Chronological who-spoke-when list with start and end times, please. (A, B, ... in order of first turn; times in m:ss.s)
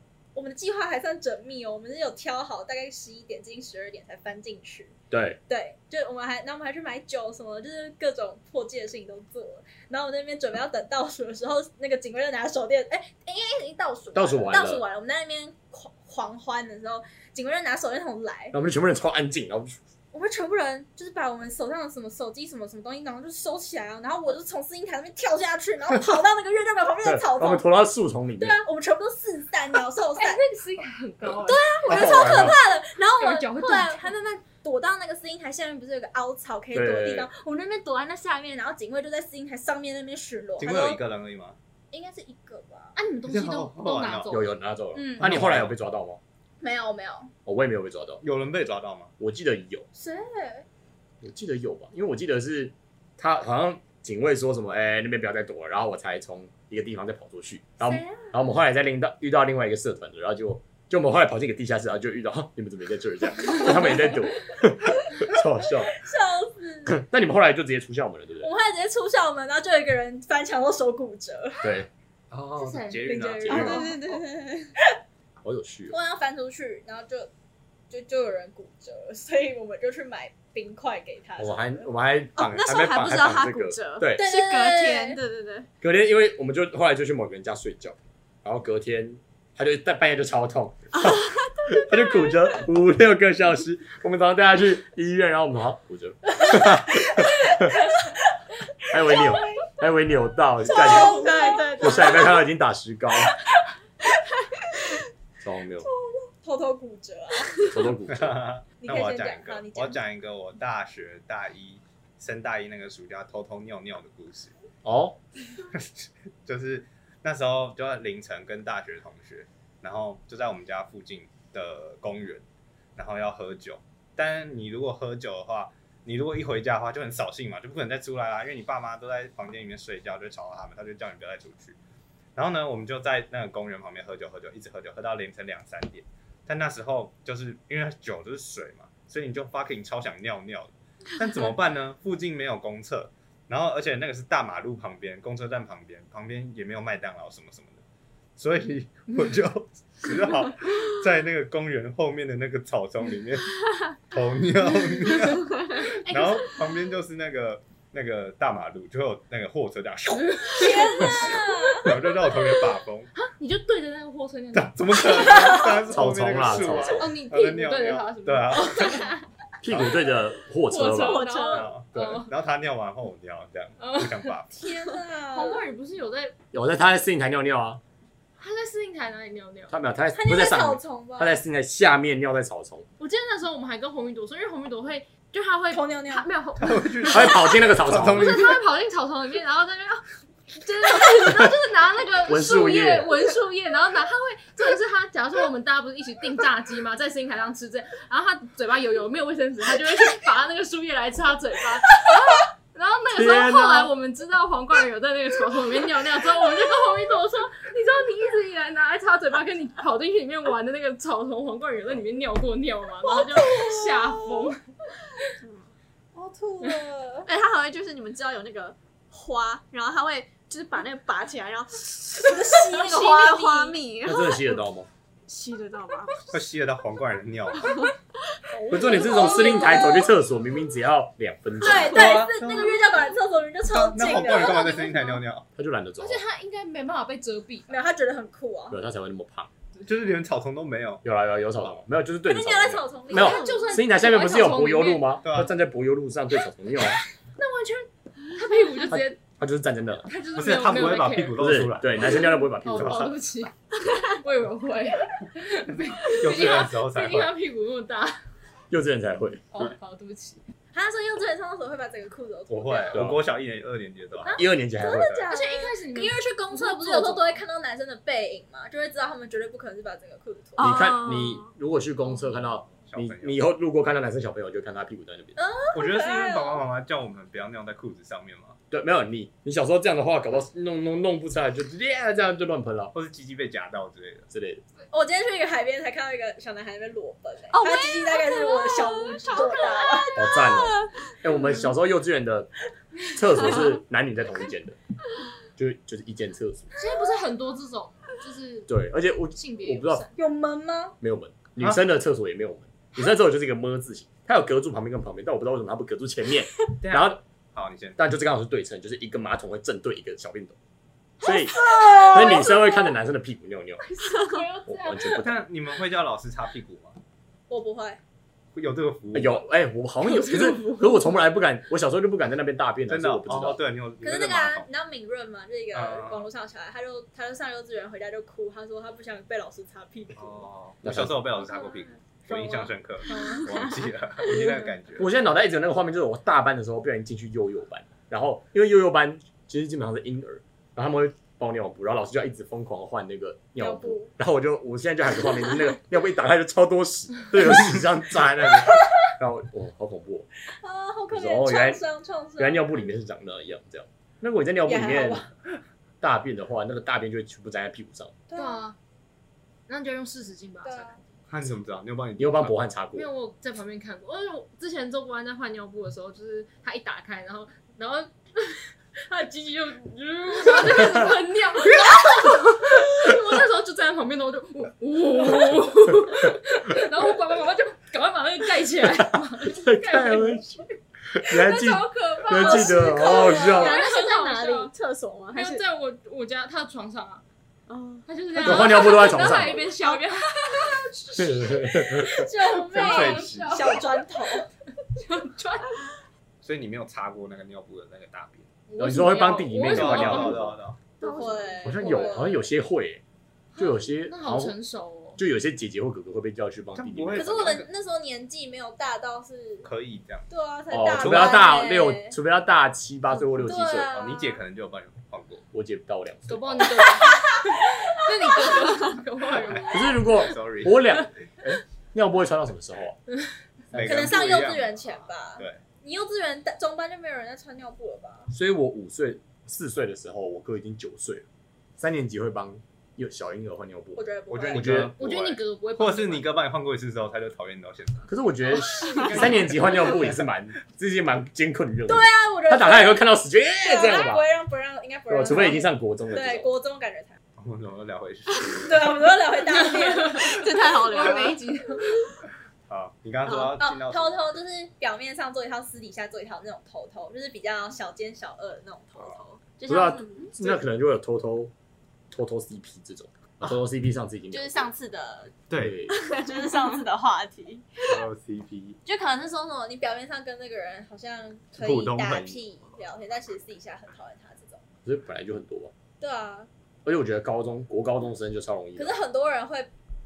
0:00.3-0:05.0 A
0:05.1-0:05.4 B
0:05.5-0:18.6 A
0:14.1-0:14.8 B
0:18.5-0:19.8 B
0:20.1-0:27.6 A
0:27.0-0:28.6 B
0:28.4-0:30.4 A
0:30.2-0:31.8 C
0:31.3-0:41.0 A
0:31.9-0:32.6 D
0:32.1-0:32.5 B
0:33.2-0:34.1 C
0:36.7-0:37.3 B
0:40.6-0:41.6 D
0:41.9-0:43.0 A
0:43.0-0:44.5 C
0:43.3-0:44.4 D
0:44.3-0:46.2 B
0:44.9-0:45.3 A
0:45.2-0:45.7 D
0:46.6-0:47.3 A
0:47.4-0:48.2 B
0:48.2-0:49.1 D
0:49.2-0:49.8 B
0:49.9-0:50.6 A
0:51.2-1:06.0 B
0:57.8-0:58.3 A
1:03.6-1:04.2 A
1:05.9-1:07.0 A
1:06.9-1:08.5 B
1:08.4-1:11.8 A
1:11.6-1:11.9 B
1:12.3-1:13.9 D
1:12.6-1:13.4 C
1:13.0-1:14.9 A
1:13.4-1:13.8 B
1:13.5-1:13.9 E
1:15.4-1:15.9 B
1:15.9-1:17.3 A
1:17.9-1:21.9 A
1:21.4-1:24.2 B
1:22.3-1:25.7 E
1:22.9-1:23.2 D
1:24.1-1:25.2 A
1:25.8-1:37.7 B
1:36.5-1:37.9 A
1:38.9-1:43.4 B
1:39.0-1:39.6 A
1:40.6-1:42.3 A
1:40.7-1:42.4 E
1:45.4-1:45.9 B
1:45.8-1:47.8 A
1:47.6-1:48.4 B
1:48.1-1:54.5 D
1:48.8-1:50.0 A
1:54.8-1:55.2 B
1:55.7-2:02.4 D
2:03.0-2:11.8 D
2:12.3-2:27.8 D
2:28.4-2:43.1 D
2:35.7-2:36.5 C
2:40.1-2:41.5 C
2:40.5-2:41.9 A
2:43.1-2:45.6 C
2:44.5-2:49.1 D
2:45.8-2:47.0 B
2:46.5-2:49.1 C
2:49.6-2:51.2 B
2:49.7-2:50.0 D
2:50.6-2:52.3 C
2:51.0-2:51.7 A
2:51.5-2:54.5 D
2:53.8-2:54.3 C
2:54.5-2:55.6 A
2:55.3-2:56.3 C
2:56.5-2:57.8 B
2:58.4-2:59.7 C
2:59.7-3:02.9 B
3:00.1-3:01.4 A
3:03.0-3:34.6 C
3:05.7-3:06.3 A
3:06.6-3:08.5 D
3:07.1-3:08.6 B
3:12.2-3:13.1 B
3:23.1-3:23.9 B
3:33.5-3:34.5 A
3:35.4-3:35.7 E
3:36.1-3:37.3 A
3:37.2-3:44.6 E
3:42.2-3:43.8 A
3:44.0-3:44.9 B
3:45.3-3:46.3 E
3:46.3-3:47.8 D
3:48.6-3:50.1 A
3:48.6-3:50.0 C
3:48.7-3:52.2 B
3:51.6-3:54.9 A
3:51.8-3:53.0 D
3:53.7-3:55.4 D
3:54.0-3:55.2 C
3:55.6-3:56.2 B
3:56.0-3:57.7 C
3:57.7-3:58.8 A
3:58.7-3:59.5 B
3:59.8-4:01.8 D
4:01.0-4:07.0 B
4:02.2-4:03.8 A
4:03.1-4:05.2 C
4:05.2-4:05.5 D
4:07.4-4:09.2 C
4:08.9-4:10.1 B
4:10.1-4:11.4 C
4:10.3-4:12.2 D
4:11.4-4:13.1 B
4:12.0-4:18.2 C
4:12.7-4:13.1 D
4:16.1-4:17.3 D
4:18.7-4:19.4 B
4:19.5-4:20.4 C
4:20.7-4:23.1 A
4:22.5-4:25.3 D
4:22.9-4:23.2 B
4:24.2-4:31.0 A
4:24.3-4:25.2 B
4:25.3-4:27.4 C
4:30.6-4:35.4 B
4:30.6-4:31.5 E
4:32.9-4:33.4 D
4:35.4-4:36.6 A
4:35.7-4:38.6 D
4:38.7-4:42.9 B
4:42.9-4:44.3 D
4:44.3-4:44.6 B
4:44.9-4:50.2 A
4:47.5-4:51.1 E
4:50.1-4:52.5 B
4:53.1-4:54.8 B
4:55.6-4:56.7 B
4:56.8-4:58.7 C
4:58.7-5:00.0 B
4:59.3-5:00.1 C
5:00.2-5:01.0 A
5:01.0-5:07.2 B
5:06.8-5:08.0 D
5:08.0-5:10.6 B
5:11.2-5:13.8 B
5:11.3-5:12.6 A
5:14.1-5:15.2 C
5:14.7-5:15.4 B
5:15.1-5:17.0 D
5:17.5-5:18.0 A
5:18.5-5:19.4 D
5:19.1-5:23.6 B
5:22.9-5:24.6 D
5:24.0-5:30.5 A
5:25.7-5:26.2 D
5:30.2-5:35.1 D
5:30.8-5:31.3 B
5:32.3-5:33.4 A
5:33.1-5:33.4 C
5:35.0-5:50.3 B
5:43.6-5:44.1 A
5:50.6-5:52.8 A
5:51.1-5:51.8 B
5:52.4-5:55.2 B
5:54.6-5:55.3 A
5:56.0-5:58.2 B
5:58.3-5:58.6 A
5:58.3-5:58.8 C
5:59.7-6:01.0 C
6:00.6-6:01.0 A
6:01.3-6:02.6 D
6:02.2-6:03.1 B
6:02.9-6:20.7 C
6:19.0-6:20.4 B
6:21.2-6:23.8 B
6:21.3-6:24.7 C
6:22.3-6:25.6 E
6:22.4-6:23.6 A
6:25.3-6:27.2 C
6:27.7-6:28.1 E
6:28.1-6:31.6 C
6:28.3-6:29.7 B
6:29.8-6:30.0 E
6:30.5-6:30.8 A
6:31.2-6:32.3 B
6:31.4-6:34.5 A
6:32.4-6:33.8 D
6:32.7-6:33.9 C
6:35.0-6:35.8 C
6:36.4-6:38.5 D
6:38.7-6:42.1 C
6:38.8-6:40.6 B
6:39.6-6:40.8 D
6:41.0-6:42.5 A
6:41.6-6:43.0 B
6:43.5-6:45.2 C
6:43.6-6:44.5 B
6:45.2-6:47.6 B
6:46.7-6:47.7 D
6:47.1-6:49.7 A
6:49.6-6:50.3 D
6:50.3-6:52.2 A
6:50.7-6:54.0 B
6:51.0-6:51.4 D
6:53.3-6:54.4 A
6:53.9-6:55.4 D
6:55.5-6:56.7 B
6:56.3-7:00.2 C
6:57.0-6:58.1 A
6:59.5-7:01.0 D
6:59.7-7:03.0 B
7:03.7-7:04.3 B
7:03.7-7:05.6 D
7:03.8-7:08.3 A
7:08.3-7:11.2 B
7:11.8-7:14.9 B
7:14.0-7:14.9 A
7:14.3-7:18.1 D
7:15.0-7:16.4 C
7:18.1-7:24.2 B
7:18.9-7:19.8 C
7:19.2-7:20.2 D
7:21.9-7:23.0 A
7:23.6-7:27.2 A
7:25.1-7:26.5 B
7:27.4-7:28.8 D
7:28.6-7:31.7 A
7:29.9-7:31.4 E
7:30.6-7:31.9 C
7:32.7-7:34.4 D
7:33.3-7:33.5 E
7:33.5-7:40.3 A
7:39.7-7:41.5 B
7:42.1-7:44.7 B
7:44.3-7:45.3 A
7:45.5-7:45.8 D
7:45.6-7:46.0 B
7:46.0-7:48.0 A
7:47.8-7:48.8 D
7:48.8-7:54.6 A
7:51.5-7:52.4 D
7:54.8-7:55.7 B
7:56.0-7:56.5 A
7:56.8-7:59.0 B
7:58.8-7:59.7 A